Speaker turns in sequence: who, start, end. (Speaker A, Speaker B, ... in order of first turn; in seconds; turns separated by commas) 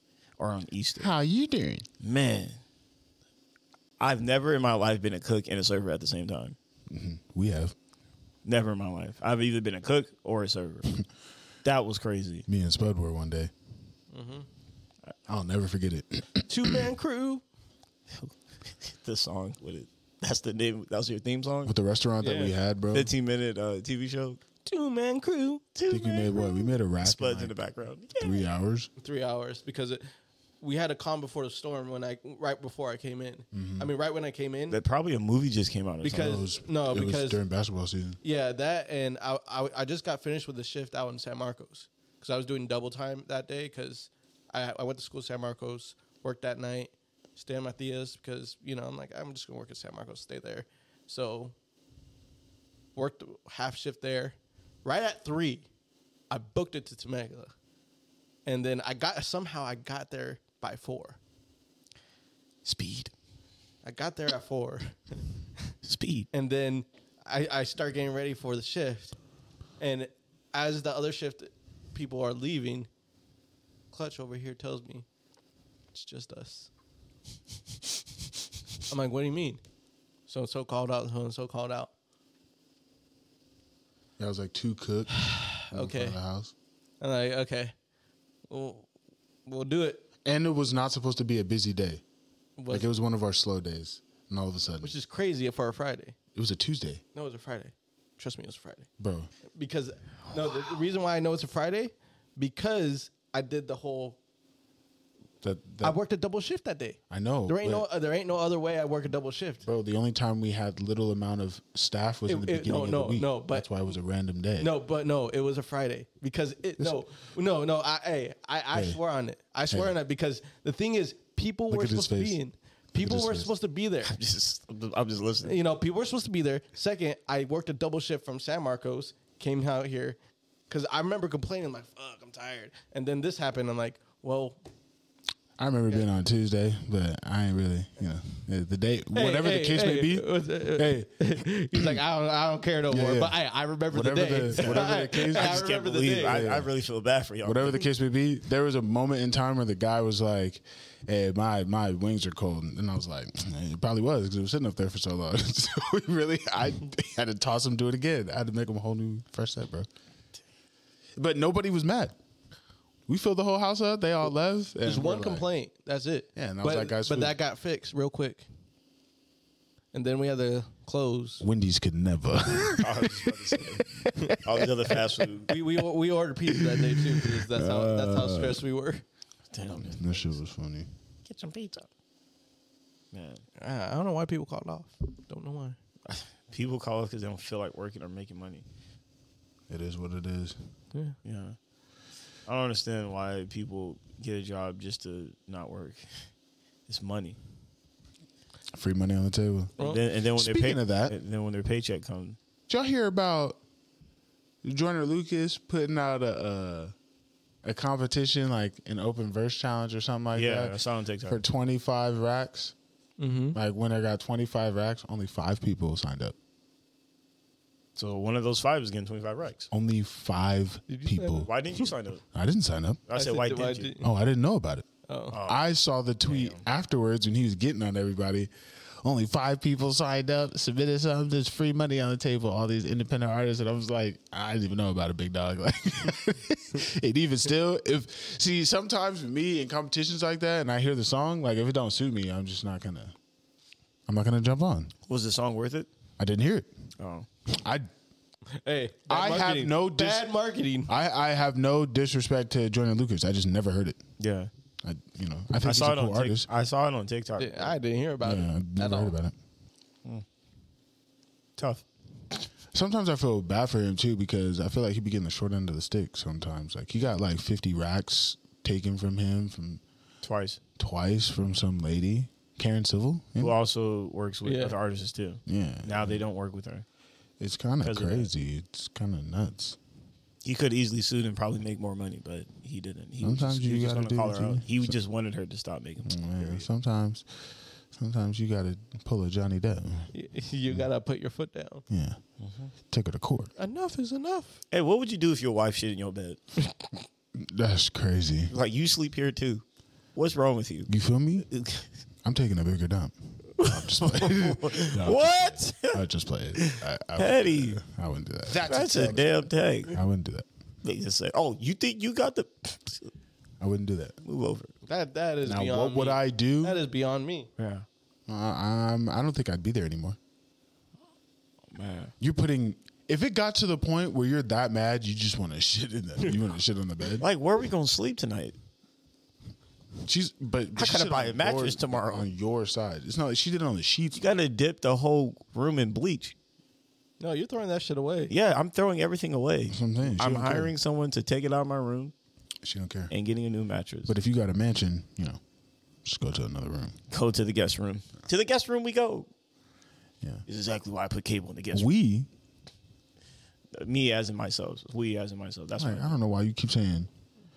Speaker A: 0.4-1.1, Speaker B: 1.0-1.9, Speaker A: 2.0-2.6, Speaker A: 4.0-6.5, Speaker B: 6.9-7.7, Speaker A: 8.4-11.0, Speaker A: 11.6-12.4, Speaker B: 12.5-13.5, Speaker C: 14.1-14.5, Speaker B: 15.3-16.8, Speaker C: 16.5-17.4, Speaker A: 18.1-21.8, Speaker B: 21.6-23.1, Speaker C: 22.2-22.5, Speaker A: 22.9-24.4, Speaker C: 24.6-25.6, Speaker A: 25.8-28.4, Speaker B: 25.9-27.5, Speaker B: 28.1-28.9, Speaker C: 29.0-30.0, Speaker C: 30.6-34.8, Speaker B: 33.5-33.9, Speaker A: 34.7-36.5, Speaker C: 36.0-37.4, Speaker B: 36.1-38.2, Speaker C: 38.2-51.5, Speaker C: 53.0-55.7, Speaker C: 56.3-57.5, Speaker C: 58.5-61.2, Speaker A: 62.6-63.1, Speaker C: 63.8-65.2, Speaker A: 65.8-66.3, Speaker C: 66.3-69.2, Speaker C: 69.8-72.9, Speaker C: 73.9-75.0, Speaker C: 75.9-76.7, Speaker C: 78.9-79.6, Speaker C: 80.3-81.9, Speaker B: 84.2-86.5, Speaker C: 85.2-86.2, Speaker C: 87.0-87.7, Speaker C: 88.5-88.9, Speaker C: 89.5-90.0, Speaker B: 90.2-92.0, Speaker C: 92.6-92.9, Speaker B: 92.7-94.9, Speaker C: 94.8-96.1, Speaker B: 96.3-97.0, Speaker C: 97.1-98.9, Speaker B: 99.0-99.3, Speaker C: 99.5-104.2, Speaker B: 105.4-106.0, Speaker C: 105.8-109.7, Speaker B: 107.1-107.8, Speaker B: 109.7-114.7, Speaker C: 112.3-113.7, Speaker C: 114.6-124.1, Speaker B: 118.7-119.0, Speaker B: 121.7-122.4, Speaker B: 122.9-123.5, Speaker A: 124.0-125.5, Speaker C: 125.4-130.2, Speaker C: 130.7-134.6, Speaker B: 135.6-142.0, Speaker C: 139.1-146.5, Speaker B: 142.9-143.4, Speaker B: 143.9-146.7, Speaker A: 144.5-147.9, Speaker B: 147.4-159.9, Speaker B: 161.2-162.2, Speaker B: 163.1-165.5, Speaker C: 164.8-168.4, Speaker B: 166.3-167.4, Speaker C: 169.9-171.4, Speaker B: 171.4-173.3, Speaker A: 172.7-175.6, Speaker C: 174.2-174.4, Speaker C: 175.4-179.0, Speaker B: 176.6-178.6, Speaker A: 179.5-180.3, Speaker B: 179.7-180.9, Speaker A: 181.2-181.9, Speaker A: 183.1-183.4, Speaker C: 183.6-185.8, Speaker A: 186.1-188.6, Speaker B: 189.7-190.6, Speaker A: 191.2-191.6, Speaker A: 192.4-196.2, Speaker A: 196.9-197.4, Speaker B: 198.7-199.7, Speaker A: 199.8-202.4, Speaker B: 200.3-201.1, Speaker B: 202.7-203.6, Speaker B: 204.6-206.9, Speaker B: 207.6-210.8, Speaker A: 210.3-211.4, Speaker B: 211.3-212.7, Speaker C: 213.2-213.6, Speaker B: 213.5-216.3, Speaker A: 217.9-219.7, Speaker B: 219.7-221.5, Speaker C: 220.9-221.8, Speaker A: 221.4-222.2, Speaker B: 222.3-223.0, Speaker A: 223.1-223.9, Speaker C: 223.1-224.1, Speaker B: 224.0-224.8, Speaker C: 225.1-225.3, Speaker A: 225.3-225.6, Speaker B: 225.4-228.5, Speaker A: 226.2-226.7, Speaker B: 229.0-243.1, Speaker B: 244.1-244.9, Speaker A: 245.1-245.9, Speaker B: 246.2-246.7, Speaker A: 247.0-247.3, Speaker B: 247.5-247.9, Speaker C: 248.5-250.9, Speaker B: 249.1-250.3, Speaker B: 250.9-254.0, Speaker A: 254.2-254.5, Speaker B: 254.8-256.5, Speaker A: 255.6-257.8, Speaker C: 257.4-259.1, Speaker B: 258.2-259.3, Speaker A: 261.6-261.8, Speaker B: 262.7-269.8, Speaker A: 270.2-270.6, Speaker B: 270.8-273.5, Speaker A: 273.4-276.8, Speaker C: 274.4-274.8, Speaker B: 275.5-276.2, Speaker B: 277.4-279.8, Speaker A: 277.8-278.3, Speaker A: 280.4-286.6, Speaker B: 283.2-284.9, Speaker B: 286.0-287.2, Speaker B: 287.9-290.1, Speaker C: 290.1-291.8, Speaker B: 291.9-292.2, Speaker A: 292.4-292.7, Speaker B: 292.9-293.5, Speaker C: 293.6-294.6, Speaker A: 294.7-296.4, Speaker B: 297.4-298.5, Speaker A: 298.5-299.6, Speaker A: 300.1-300.9, Speaker B: 300.9-301.5, Speaker A: 301.5-301.9, Speaker B: 302.2-310.4, Speaker A: 303.6-306.0, Speaker A: 306.6-307.8, Speaker A: 308.5-309.9, Speaker A: 310.8-313.1, Speaker B: 313.6-314.2, Speaker A: 314.2-314.7, Speaker C: 314.9-317.5, Speaker B: 315.4-316.8, Speaker A: 317.6-317.9, Speaker B: 318.3-320.2, Speaker A: 321.7-322.1, Speaker B: 322.2-327.2, Speaker A: 327.2-328.6, Speaker B: 330.0-334.2, Speaker A: 330.8-332.3, Speaker A: 334.1-336.3, Speaker C: 337.2-338.3, Speaker A: 338.3-342.1, Speaker B: 339.7-340.7, Speaker B: 342.6-343.1, Speaker A: 343.1-344.1, Speaker B: 344.1-345.4, Speaker B: 346.0-347.0, Speaker A: 347.1-349.3, Speaker A: 350.5-351.9, Speaker B: 351.7-352.3, Speaker A: 353.7-356.1, Speaker B: 355.8-357.1